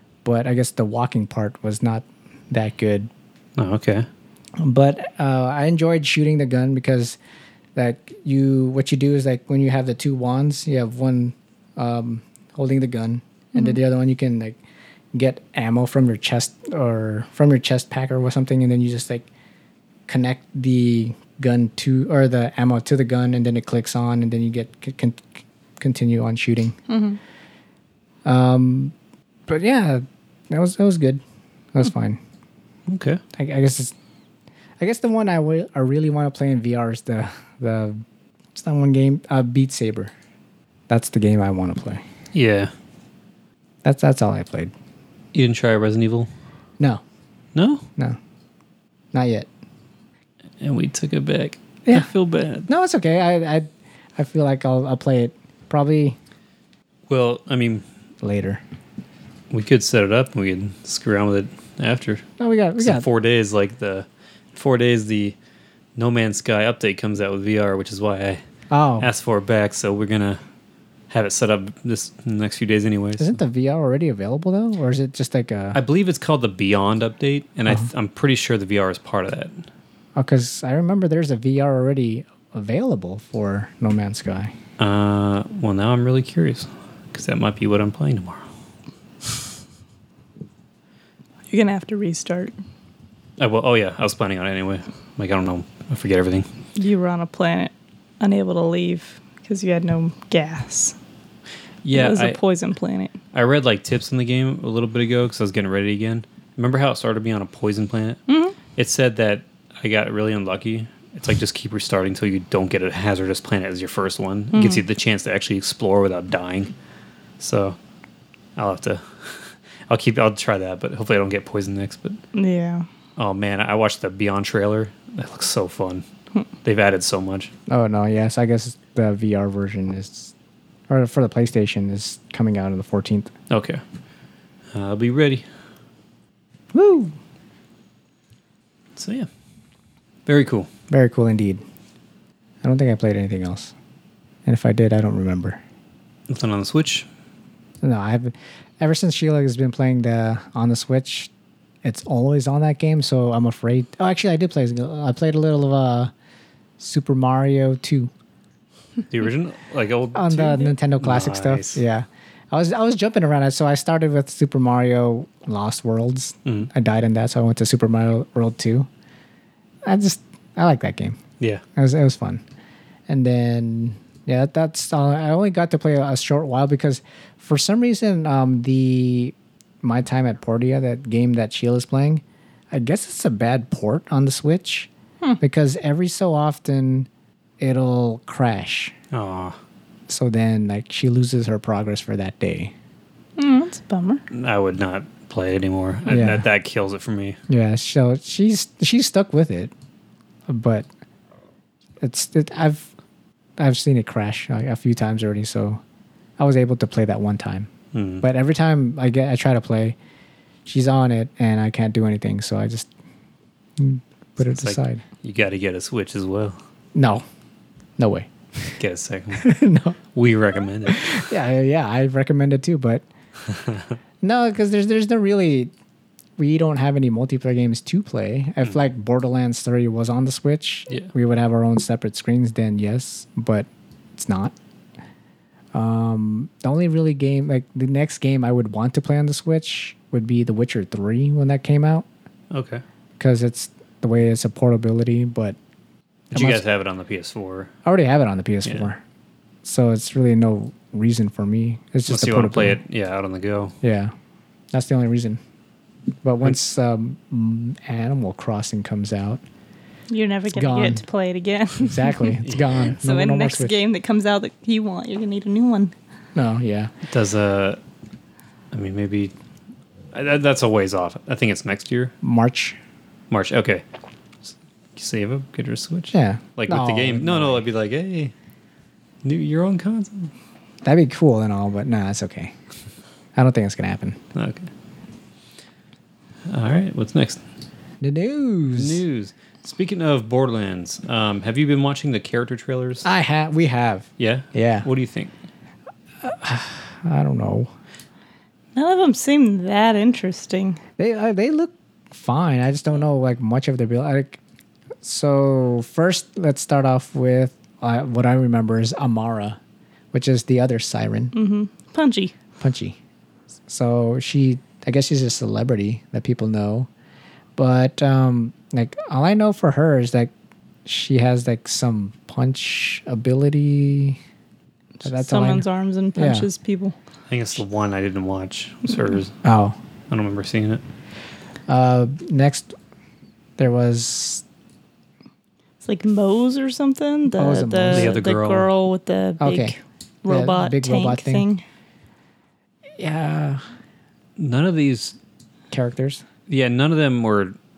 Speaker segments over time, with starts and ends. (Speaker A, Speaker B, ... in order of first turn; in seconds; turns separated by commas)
Speaker A: 0.2-3.1, Speaker B: 3.6-4.1, Speaker A: 4.6-7.2, Speaker A: 7.8-14.6, Speaker A: 15.1-19.3, Speaker A: 20.1-26.8, Speaker C: 26.9-27.2, Speaker A: 28.2-28.9, Speaker A: 29.5-31.2, Speaker A: 31.7-32.2, Speaker B: 32.9-33.2, Speaker A: 33.4-33.9, Speaker A: 34.8-38.0, Speaker A: 38.5-40.1, Speaker A: 40.9-42.0, Speaker B: 42.3-42.7, Speaker A: 43.8-44.7, Speaker B: 45.3-46.3, Speaker B: 47.5-47.9, Speaker A: 49.1-49.5, Speaker B: 50.6-52.7, Speaker A: 52.7-56.2, Speaker B: 57.1-57.8, Speaker A: 58.2-58.6, Speaker B: 59.5-62.2, Speaker A: 62.4-63.0, Speaker B: 62.8-65.3, Speaker B: 66.0-68.4, Speaker A: 68.7-69.1, Speaker B: 69.0-70.4, Speaker B: 71.1-73.4, Speaker A: 73.2-75.8, Speaker B: 75.7-79.5, Speaker A: 80.2-84.5, Speaker B: 84.8-88.5, Speaker C: 91.5-92.5, Speaker B: 93.4-96.5, Speaker C: 96.8-101.0, Speaker B: 101.8-102.4, Speaker C: 101.9-103.2, Speaker B: 103.3-108.2, Speaker C: 108.3-108.6, Speaker B: 108.7-116.7, Speaker C: 114.5-114.8, Speaker B: 117.4-117.8, Speaker B: 118.6-122.2, Speaker C: 122.3-122.9, Speaker B: 123.2-126.0, Speaker B: 126.6-127.5, Speaker A: 127.7-130.3, Speaker A: 130.9-133.3, Speaker B: 133.5-133.8, Speaker B: 134.7-135.4, Speaker A: 136.7-137.2, Speaker B: 139.0-139.3, Speaker B: 140.3-140.7, Speaker A: 140.9-141.6, Speaker A: 142.6-143.7, Speaker A: 144.4-145.6, Speaker B: 146.3-147.1, Speaker A: 147.8-151.3, Speaker A: 151.8-156.1, Speaker A: 156.8-158.1, Speaker B: 159.1-161.8, Speaker A: 160.1-168.9, Speaker A: 169.8-171.2, Speaker A: 171.8-172.4, Speaker A: 173.1-184.9, Speaker A: 185.4-187.1, Speaker A: 187.6-188.9, Speaker B: 189.1-189.6, Speaker A: 190.1-192.7, Speaker C: 193.4-194.2, Speaker B: 194.3-197.4, Speaker A: 196.1-196.5, Speaker A: 197.5-199.7, Speaker A: 200.5-200.9, Speaker A: 202.0-202.9, Speaker A: 203.6-205.8, Speaker A: 206.4-207.7, Speaker B: 207.9-208.2, Speaker A: 208.2-210.0, Speaker A: 210.7-212.9, Speaker A: 213.8-215.0, Speaker B: 214.4-216.6, Speaker A: 216.9-217.2, Speaker A: 218.0-218.8, Speaker B: 218.8-219.5, Speaker A: 219.3-220.0, Speaker B: 220.2-221.2, Speaker A: 220.9-223.1, Speaker B: 223.5-223.8, Speaker A: 224.2-225.7, Speaker A: 226.4-234.6, Speaker A: 235.7-242.1, Speaker B: 242.5-242.8, Speaker A: 243.2-245.6, Speaker B: 246.3-247.7, Speaker A: 246.3-246.6, Speaker A: 247.8-249.0, Speaker A: 249.6-252.8, Speaker B: 252.1-253.8, Speaker A: 253.8-254.1, Speaker A: 254.7-255.4, Speaker A: 256.2-259.4, Speaker C: 260.1-265.9, Speaker A: 260.5-261.0, Speaker A: 261.8-263.8, Speaker B: 262.4-262.9, Speaker A: 266.4-266.9, Speaker B: 267.1-267.8, Speaker B: 268.7-269.3, Speaker B: 270.1-272.1, Speaker A: 272.2-272.8, Speaker B: 273.3-273.8, Speaker B: 274.4-278.3, Speaker A: 276.1-277.6, Speaker B: 279.2-280.3, Speaker A: 280.8-282.5, Speaker A: 283.4-284.2, Speaker B: 284.4-284.7, Speaker B: 286.5-287.4, Speaker A: 288.0-289.0, Speaker B: 288.8-293.1, Speaker A: 293.0-294.9, Speaker B: 294.2-295.3, Speaker A: 296.2-297.7, Speaker C: 298.8-300.8, Speaker A: 301.0-304.4, Speaker A: 305.0-309.6, Speaker A: 310.1-311.3, Speaker C: 311.3-312.3, Speaker A: 312.6-313.0, Speaker A: 313.7-316.9, Speaker A: 317.6-320.3, Speaker A: 320.9-324.2, Speaker C: 325.0-327.0, Speaker A: 325.0-325.7, Speaker A: 326.2-326.5, Speaker B: 327.3-329.4, Speaker A: 329.4-329.8, Speaker B: 330.1-330.8, Speaker A: 331.7-332.7, Speaker A: 333.6-334.4, Speaker C: 335.8-341.6, Speaker A: 337.4-338.2, Speaker B: 337.9-338.7, Speaker A: 339.4-339.8, Speaker A: 340.3-341.4, Speaker A: 343.0-343.6, Speaker B: 344.4-345.2, Speaker A: 345.7-346.2, Speaker B: 346.5-347.6